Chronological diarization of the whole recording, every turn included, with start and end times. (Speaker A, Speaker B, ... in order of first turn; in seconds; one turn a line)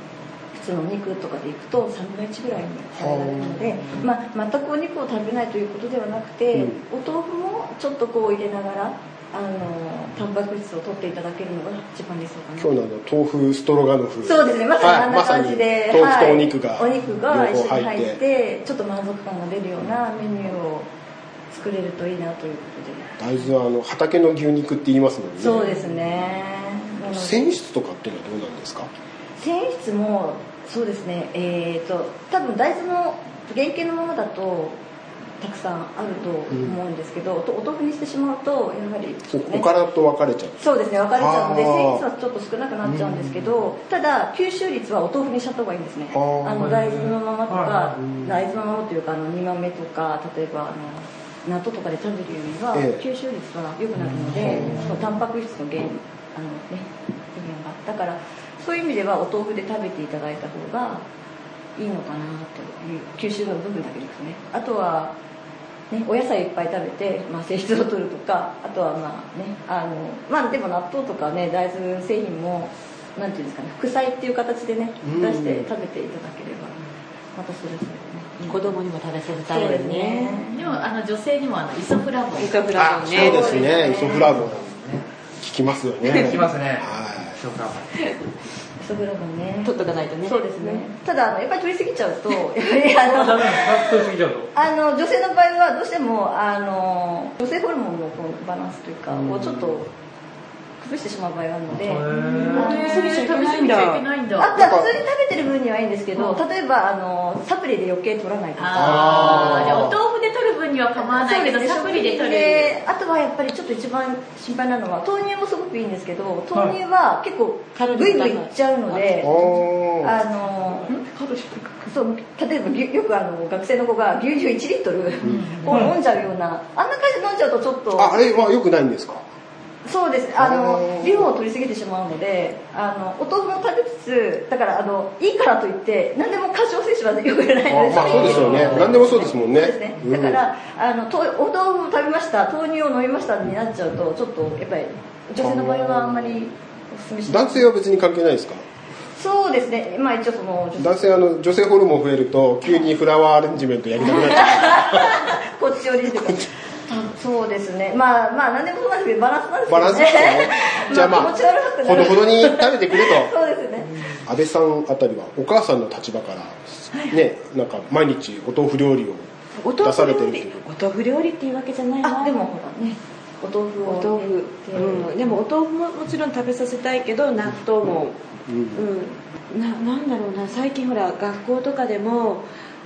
Speaker A: 0.5-12.7
Speaker B: 3.0-3.8
Speaker B: 12.6-18.2
Speaker A: 14.2-20.9
Speaker A: 21.5-23.2
Speaker B: 23.2-25.7
Speaker A: 25.4-27.5
Speaker B: 27.1-28.9
Speaker A: 29.4-34.8
Speaker A: 35.4-39.7
Speaker B: 39.3-40.6
Speaker A: 40.6-61.0
Speaker B: 41.1-42.0
Speaker B: 42.8-43.5
Speaker B: 46.1-46.7
Speaker C: 46.5-48.0
Speaker B: 48.0-48.3
Speaker B: 52.7-53.0
Speaker C: 54.0-54.9
Speaker B: 54.4-54.9
Speaker A: 61.8-65.1
Speaker A: 65.9-76.8
Speaker B: 75.0-75.7
Speaker A: 77.3-78.8
Speaker D: 78.4-80.4
Speaker A: 79.5-80.9
Speaker E: 80.5-82.9
Speaker D: 82.3-83.4
Speaker B: 82.8-84.6
Speaker C: 82.8-85.0
Speaker A: 83.1-84.3
Speaker B: 85.4-87.4
Speaker C: 86.0-87.9
Speaker A: 88.8-93.9
Speaker D: 89.6-90.8
Speaker C: 93.0-94.5
Speaker A: 94.5-99.9
Speaker B: 99.1-99.7
Speaker A: 100.8-102.9
Speaker C: 101.8-102.8
Speaker D: 102.2-104.0
Speaker E: 102.8-104.6
Speaker A: 104.4-109.3
Speaker B: 104.5-104.9
Speaker E: 106.1-106.4
Speaker E: 108.5-112.8
Speaker B: 108.7-110.0
Speaker A: 111.0-128.2
Speaker D: 117.7-119.4
Speaker B: 119.2-120.2
Speaker B: 125.2-125.5
Speaker E: 125.3-125.6
Speaker B: 128.0-129.2
Speaker A: 129.8-147.7
Speaker B: 130.3-131.3
Speaker B: 137.7-140.4
Speaker C: 137.9-139.0
Speaker B: 145.3-146.4
Speaker B: 147.3-148.6
Speaker A: 149.1-151.0
Speaker B: 150.8-155.3
Speaker A: 154.0-163.9
Speaker B: 159.7-163.3
Speaker B: 164.2-169.3
Speaker A: 166.9-167.2
Speaker D: 169.6-172.5
Speaker B: 169.8-170.7
Speaker A: 172.0-175.3
Speaker D: 173.8-182.4
Speaker B: 178.5-178.8